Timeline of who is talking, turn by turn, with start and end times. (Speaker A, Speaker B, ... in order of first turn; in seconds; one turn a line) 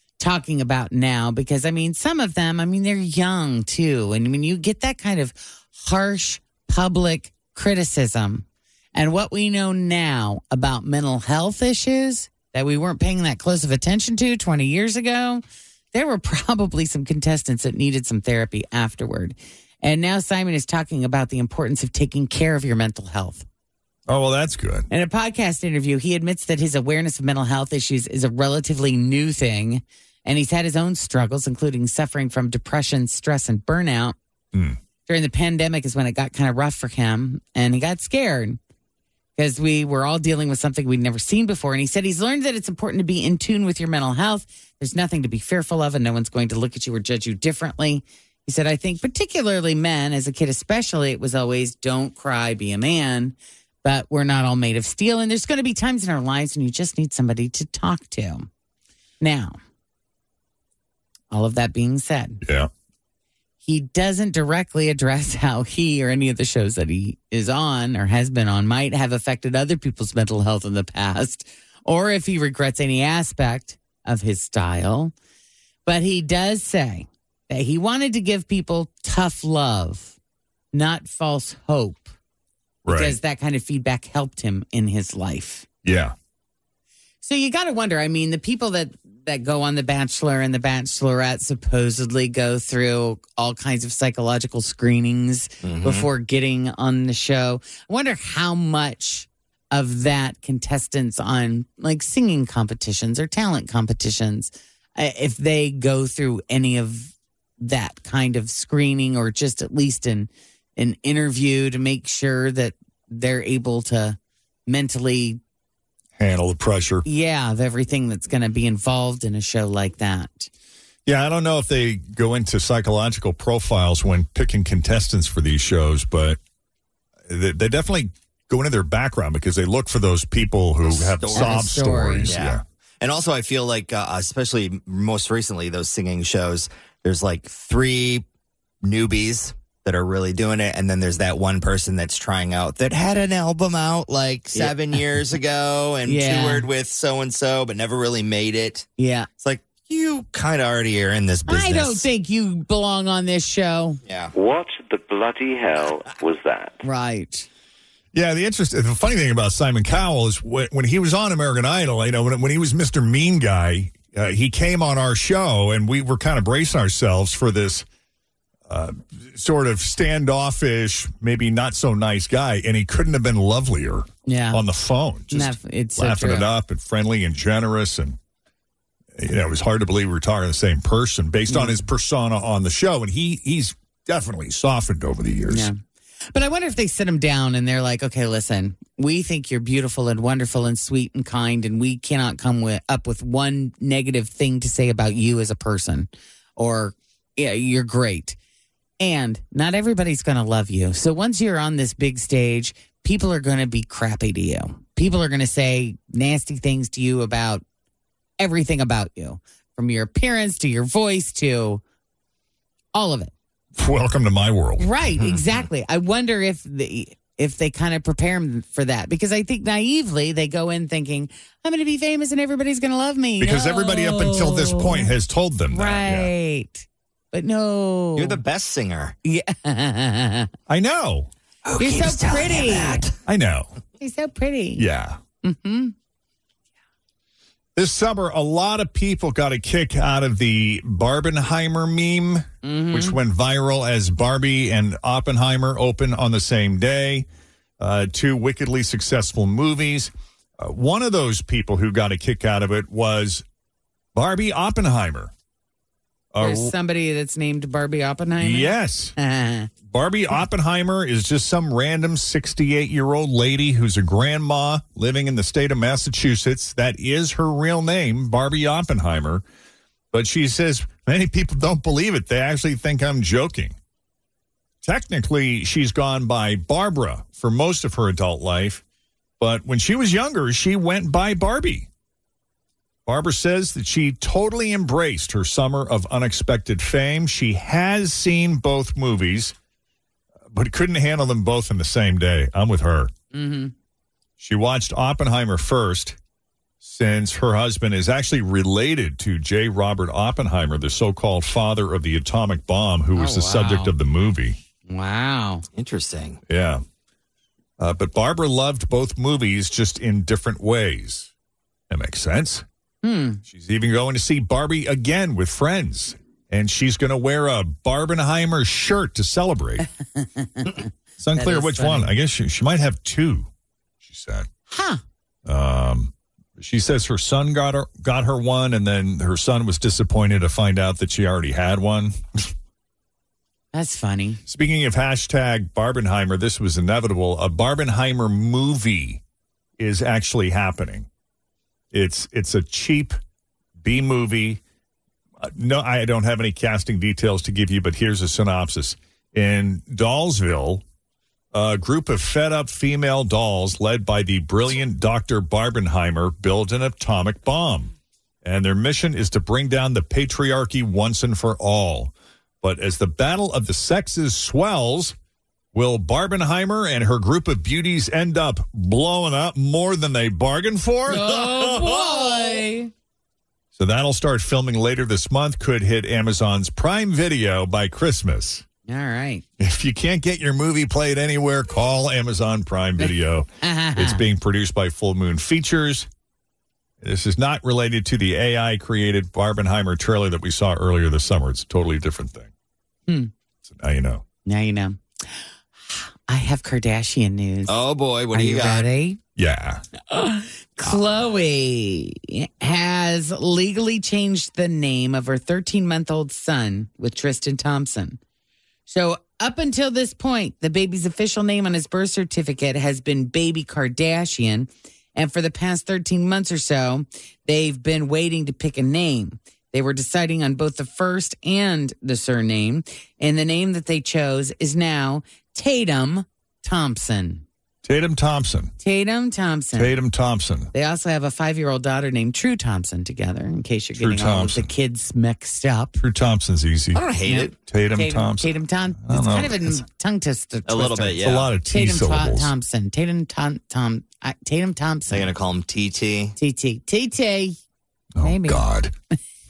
Speaker A: 0.2-23.4
Speaker B: 24.1-24.9
Speaker A: 24.9-34.2
Speaker A: 35.1-38.6
Speaker A: 39.4-58.5
Speaker A: 59.2-59.6
Speaker A: 61.3-62.4
Speaker B: 62.4-62.7
Speaker A: 63.6-75.1
Speaker A: 75.9-80.2
Speaker A: 80.7-82.1
Speaker B: 82.8-83.2
Speaker A: 82.9-85.7
Speaker B: 85.8-86.1
Speaker A: 87.2-115.4
Speaker C: 95.6-96.1
Speaker B: 116.2-117.0
Speaker A: 117.0-120.5
Speaker B: 121.1-126.4
Speaker B: 127.3-132.6
Speaker C: 130.8-131.7
Speaker A: 131.3-132.3
Speaker C: 132.3-138.2
Speaker C: 138.8-148.9
Speaker A: 146.1-146.7
Speaker A: 149.0-149.3
Speaker C: 149.4-152.1
Speaker A: 151.5-154.0
Speaker C: 154.1-154.3
Speaker D: 154.3-156.8
Speaker A: 156.8-157.5
Speaker B: 158.1-167.9
Speaker B: 168.7-178.2
Speaker A: 174.3-174.6
Speaker A: 175.3-176.5
Speaker B: 179.2-185.7
Speaker A: 181.5-181.8
Speaker A: 185.5-185.8
Speaker A: 186.3-198.4
Speaker A: 199.0-207.6
Speaker A: 208.4-211.8
Speaker A: 212.9-213.3
Speaker B: 213.8-215.2
Speaker A: 214.8-225.1
Speaker C: 215.2-215.7
Speaker B: 223.4-226.3
Speaker A: 225.7-228.4
Speaker C: 228.2-229.2
Speaker A: 229.2-230.5
Speaker B: 230.7-231.3
Speaker C: 231.7-233.1
Speaker A: 231.8-233.1
Speaker B: 233.3-233.7
Speaker A: 234.0-234.8
Speaker B: 234.8-235.2
Speaker A: 235.4-235.9
Speaker B: 237.8-247.3
Speaker A: 242.6-243.2
Speaker B: 247.8-253.4
Speaker B: 254.2-255.3
Speaker B: 256.3-256.7
Speaker A: 256.4-259.7
Speaker B: 258.4-259.1
Speaker B: 259.9-269.4
Speaker B: 270.1-273.8
Speaker B: 274.8-278.8
Speaker B: 279.4-281.9
Speaker B: 283.1-289.6
Speaker B: 290.5-293.1
Speaker A: 293.3-293.7
Speaker B: 294.4-296.2
Speaker B: 296.8-304.6
Speaker A: 303.1-303.9
Speaker A: 304.9-305.6
Speaker C: 305.7-306.4
Speaker B: 306.5-306.8
Speaker B: 307.8-311.3
Speaker B: 311.9-312.6
Speaker A: 313.0-313.4
Speaker B: 313.5-319.9
Speaker A: 320.2-322.1
Speaker B: 321.2-323.5
Speaker B: 324.0-324.5
Speaker A: 324.7-325.0
Speaker B: 325.5-332.5
Speaker A: 333.7-334.4
Speaker B: 334.5-339.2
Speaker B: 339.8-341.1
Speaker B: 341.9-343.2
Speaker B: 343.8-344.6
Speaker B: 345.4-350.8
Speaker B: 351.5-357.9
Speaker B: 358.4-365.1
Speaker B: 365.7-372.2
Speaker A: 371.1-372.9
Speaker B: 373.8-378.6
Speaker A: 378.9-379.4
Speaker B: 379.6-386.1
Speaker A: 383.6-384.2
Speaker B: 387.0-392.5
Speaker B: 393.6-394.2
Speaker A: 394.5-395.4
Speaker A: 395.9-397.8
Speaker C: 397.7-398.9
Speaker A: 398.3-399.2
Speaker B: 399.4-399.8
Speaker A: 400.1-408.2
Speaker A: 408.9-427.4
Speaker B: 427.8-428.7
Speaker A: 428.8-429.9
Speaker B: 429.8-430.7
Speaker A: 430.7-436.0
Speaker B: 434.0-434.7
Speaker B: 436.0-437.1
Speaker C: 436.9-437.6
Speaker A: 437.2-445.3
Speaker B: 437.6-439.8
Speaker C: 440.7-441.5
Speaker B: 441.2-442.5
Speaker C: 445.1-446.4
Speaker A: 446.4-447.6
Speaker B: 448.2-448.9
Speaker A: 448.2-448.6